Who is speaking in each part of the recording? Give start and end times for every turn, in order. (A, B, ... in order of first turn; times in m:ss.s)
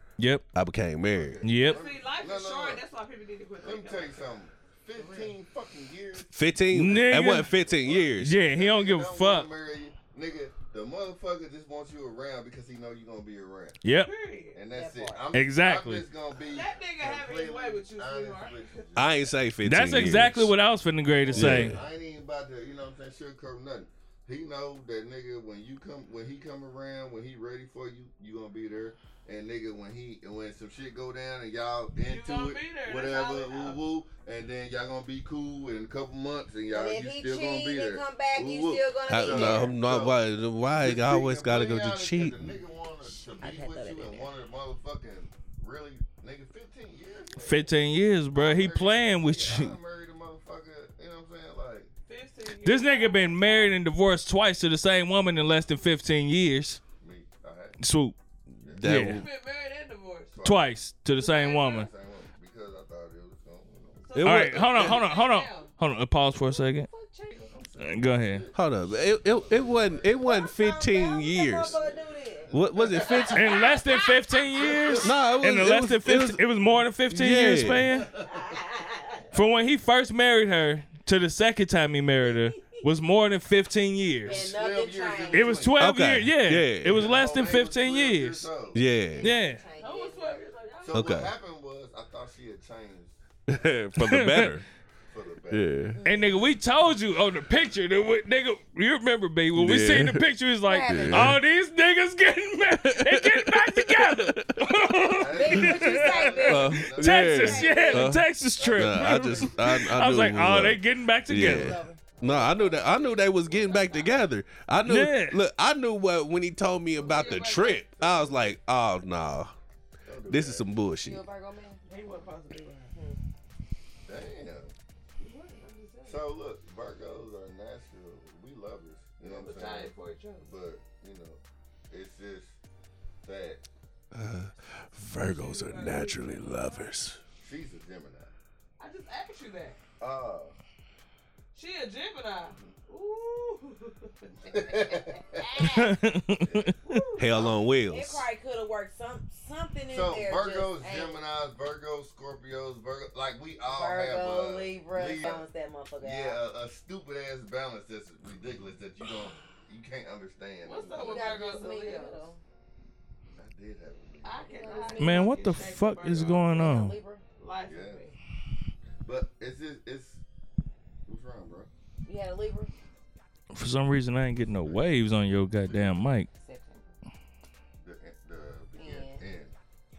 0:00.2-0:00.4 A
0:00.5-0:01.4 B
0:01.1-0:02.8 C
0:01.4-0:01.8 A
0:01.6-0:04.3 D
0:03.6-0:13.8 C
0:06.3-0:08.4 B
0:06.7-0:07.5 A
0:08.2-0:09.5 A
0:13.8-0:14.1 A
0:14.0-0:14.6 D
0:14.5-0:19.3 C
0:14.7-0:15.3 E
0:15.3-0:16.0 A
0:16.5-0:19.2 D
0:19.0-0:20.5 B
0:19.6-0:21.8 A
0:21.2-0:40.2 C
0:21.3-0:21.8 B
0:32.0-0:33.8 D
0:36.7-0:39.7 E
0:39.1-0:42.5 B
0:40.8-0:47.8 C
0:43.4-0:44.3 E
0:47.4-0:49.8 A
0:48.3-0:51.9 C
0:52.1-0:53.8 D
0:52.6-0:56.8 A
0:57.0-0:57.8 C
0:57.8-0:58.2 A
0:58.6-0:58.9 C
0:58.7-0:59.3 B
0:58.8-0:59.2 A
0:59.0-1:00.4 D
1:00.3-1:00.7 C
1:00.4-1:01.9 A
1:01.3-1:04.2 C
1:04.0-1:05.7 D
1:04.2-1:04.9 B
1:04.2-1:06.9 A
1:06.3-1:07.6 D
1:07.5-1:10.3 C
1:07.8-1:08.5 A
1:08.5-1:11.8 B
1:10.2-1:13.8 E
1:11.7-1:13.6 C
1:12.5-1:13.6 B
1:13.3-1:18.1 A
1:14.4-1:15.1 C
1:15.0-1:16.5 B
1:17.0-1:17.9 B
1:17.9-1:18.6 C
1:18.4-1:19.2 E
1:19.3-1:24.5 A
1:24.2-1:25.7 E
1:24.2-1:25.8 C
1:25.3-1:28.5 A
1:25.8-1:27.2 B
1:26.8-1:28.8 C
1:28.7-1:29.4 B
1:29.1-1:30.4 E
1:29.2-1:29.6 A
1:29.8-1:31.2 D
1:30.8-1:33.2 C
1:30.9-1:31.3 B
1:33.5-1:34.6 B
1:34.0-1:34.5 A
1:35.0-1:35.7 C
1:35.5-1:36.0 B
1:36.0-1:36.5 E
1:36.0-1:51.8 A
1:39.5-1:40.3 B
1:40.6-1:41.4 E
1:40.8-1:41.4 B
1:42.9-1:44.7 B
1:45.1-1:47.9 C
1:45.3-1:48.2 E
1:46.4-1:59.5 B
1:48.6-1:49.8 C
1:51.3-1:52.2 E
1:54.8-1:55.4 A
1:57.0-1:58.5 D
2:00.0-2:00.7 C
2:00.3-2:01.2 B
2:01.0-2:01.8 E
2:01.8-2:03.0 D
2:02.9-2:03.2 E
2:04.0-2:04.7 C
2:05.2-2:06.2 D
2:06.0-2:11.4 C
2:09.2-2:10.5 D
2:11.9-2:12.6 C
2:13.2-2:13.6 C
2:14.1-2:17.2 B
2:15.2-2:16.9 D
2:17.4-2:18.3 C
2:18.8-2:19.8 D
2:20.0-2:20.6 C
2:21.5-2:24.6 D
2:24.4-2:25.6 C
2:25.4-2:25.7 D
2:25.6-2:26.8 A
2:26.4-2:26.7 C
2:26.8-2:27.5 D
2:27.2-2:28.2 B
2:27.9-2:31.2 E
2:29.9-2:35.5 C
2:33.6-2:36.4 E
2:36.0-2:41.5 C
2:40.6-2:42.3 D
2:40.9-2:42.4 E
2:43.4-2:44.9 C
2:44.2-2:46.4 D
2:44.4-2:45.6 E
2:45.0-2:47.0 A
2:46.1-2:46.4 C
2:46.2-2:47.2 E
2:47.4-2:48.2 D
2:47.6-2:48.0 C
2:49.0-2:50.2 C
2:51.0-2:51.7 C
2:52.0-2:52.7 E
2:53.5-2:56.3 A
2:54.6-2:55.0 C
2:55.6-2:56.0 C
2:56.3-2:57.0 E
2:57.8-2:59.5 C
2:58.8-2:59.2 E